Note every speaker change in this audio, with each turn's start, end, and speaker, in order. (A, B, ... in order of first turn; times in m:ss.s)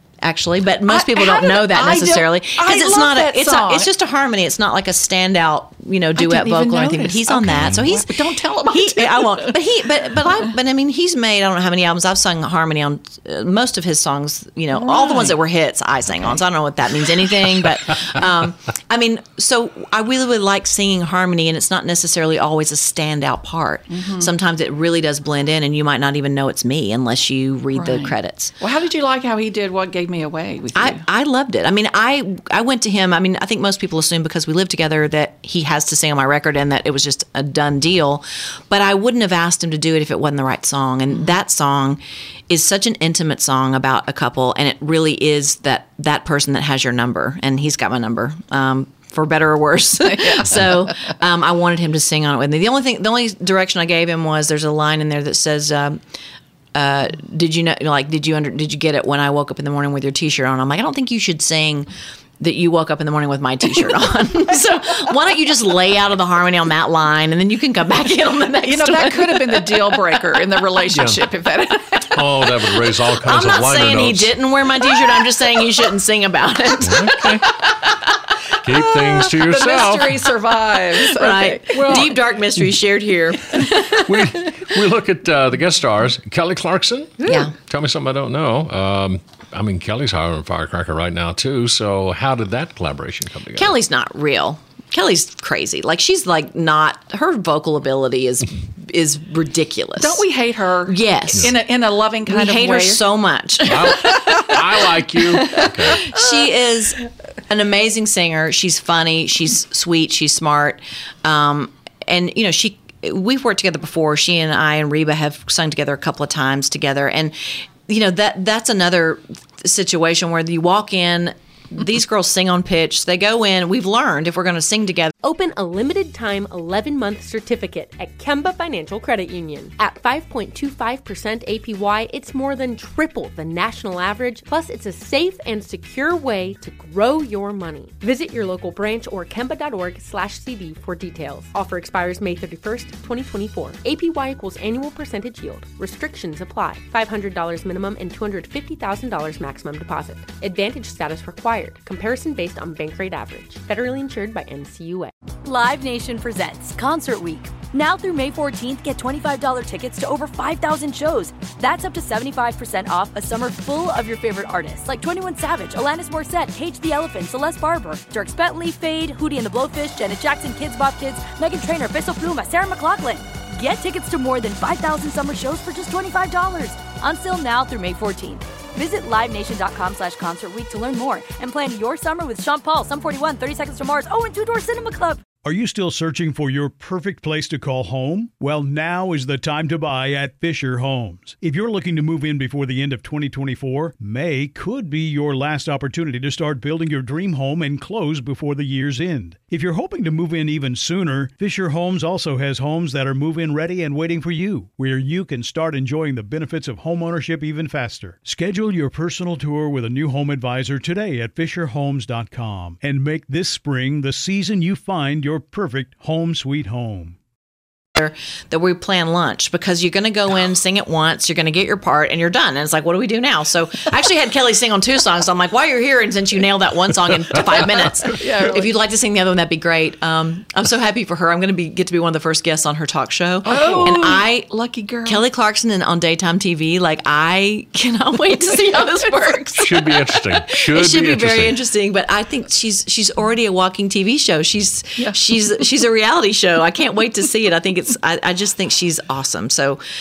0:00.2-0:08.1 A
0:00.9-0:03.9 B
0:06.2-0:09.6 B
0:08.7-0:28.6 A
0:14.7-0:15.4 B
0:23.9-0:24.3 B
0:27.7-0:31.0 B
0:30.7-0:56.0 A
0:50.0-0:51.1 B
0:56.8-1:09.9 A
1:08.7-1:12.2 B
1:10.9-1:11.2 C
1:12.1-1:14.3 C
1:13.2-1:17.6 A
1:16.8-1:17.5 C
1:18.6-1:20.2 C
1:19.1-1:22.1 B
1:21.0-1:24.2 A
1:21.7-1:22.1 C
1:24.0-1:33.8 C
1:27.2-1:27.5 A
1:33.6-1:40.2 A
1:40.0-1:43.0 B
1:40.9-1:41.6 A
1:42.3-1:44.6 A
1:43.7-1:46.1 C
1:43.9-1:44.4 B
1:45.4-2:05.1 A
1:46.0-1:46.5 B
2:05.2-2:35.1 D
2:35.5-3:05.2 E
3:05.4-3:37.2 F
3:38.0-3:54.5 A
3:48.0-3:48.7 B
3:53.4-3:55.2 B
3:53.5-3:54.1 C
3:55.0-3:59.7 A
3:58.5-3:59.6 B
3:59.6-4:01.6 C
4:00.5-4:09.8 A